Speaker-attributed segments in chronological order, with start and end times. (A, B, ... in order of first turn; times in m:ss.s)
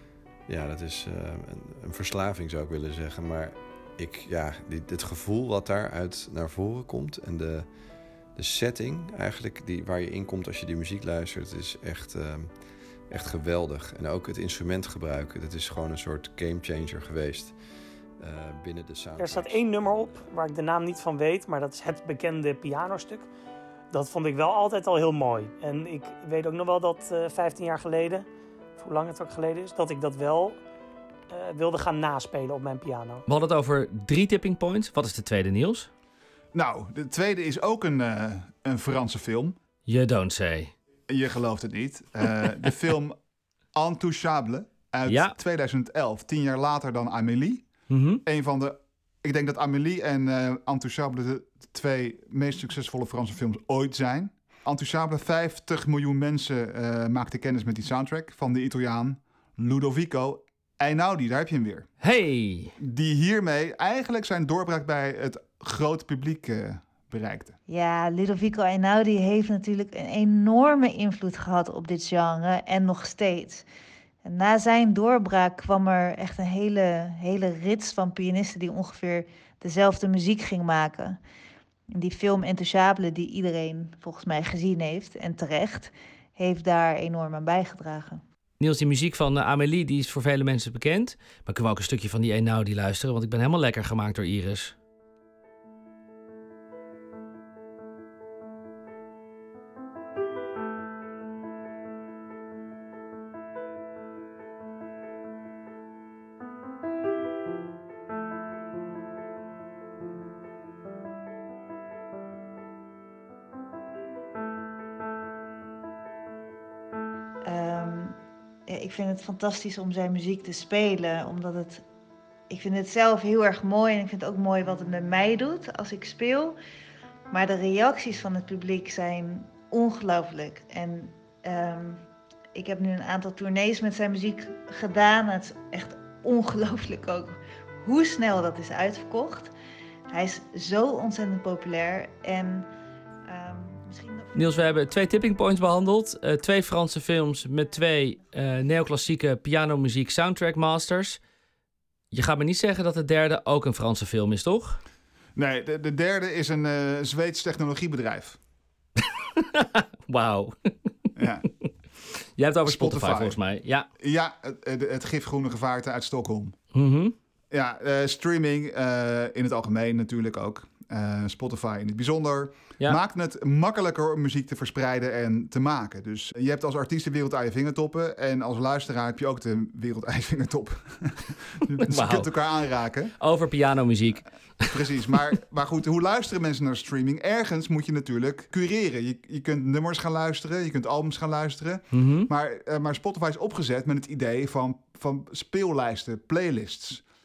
0:00.5-0:07.7 A
0:08.4-0:12.5 A
0:13.1-0:17.6 A
0:18.2-0:19.7 A
0:19.2-0:23.3 B
0:23.9-0:30.6 B
0:31.3-0:33.2 B
0:33.3-0:35.9 C
0:36.5-0:39.6 D
0:39.9-0:40.7 C
0:41.1-0:43.2 D
0:43.7-0:47.6 D
0:45.1-0:45.3 C
0:47.9-0:48.2 C
0:48.2-1:01.9 D
1:02.0-1:02.7 C
1:02.8-1:07.6 D
1:07.7-1:13.6 E
1:14.2-1:21.2 E
1:21.9-1:28.2 E
1:28.6-1:34.7 C
1:57.4-1:58.2 E
1:58.7-2:01.8 E
2:02.5-2:06.6 E
2:07.3-2:12.0 E
2:12.5-2:19.5 E
2:20.1-2:22.7 E
2:23.2-2:24.3 E
2:24.3-2:31.2 C
2:32.1-2:34.8 C
2:35.4-2:38.4 D
2:39.0-2:41.1 C
2:41.2-2:41.5 D
2:42.4-2:43.9 C
2:42.6-2:43.4 D
2:44.0-2:46.6 D
2:46.7-2:47.1 C
2:47.5-3:03.1 D
3:01.8-3:02.3 C
3:03.2-3:05.1 C
3:04.6-3:17.0 D
3:11.9-3:12.3 C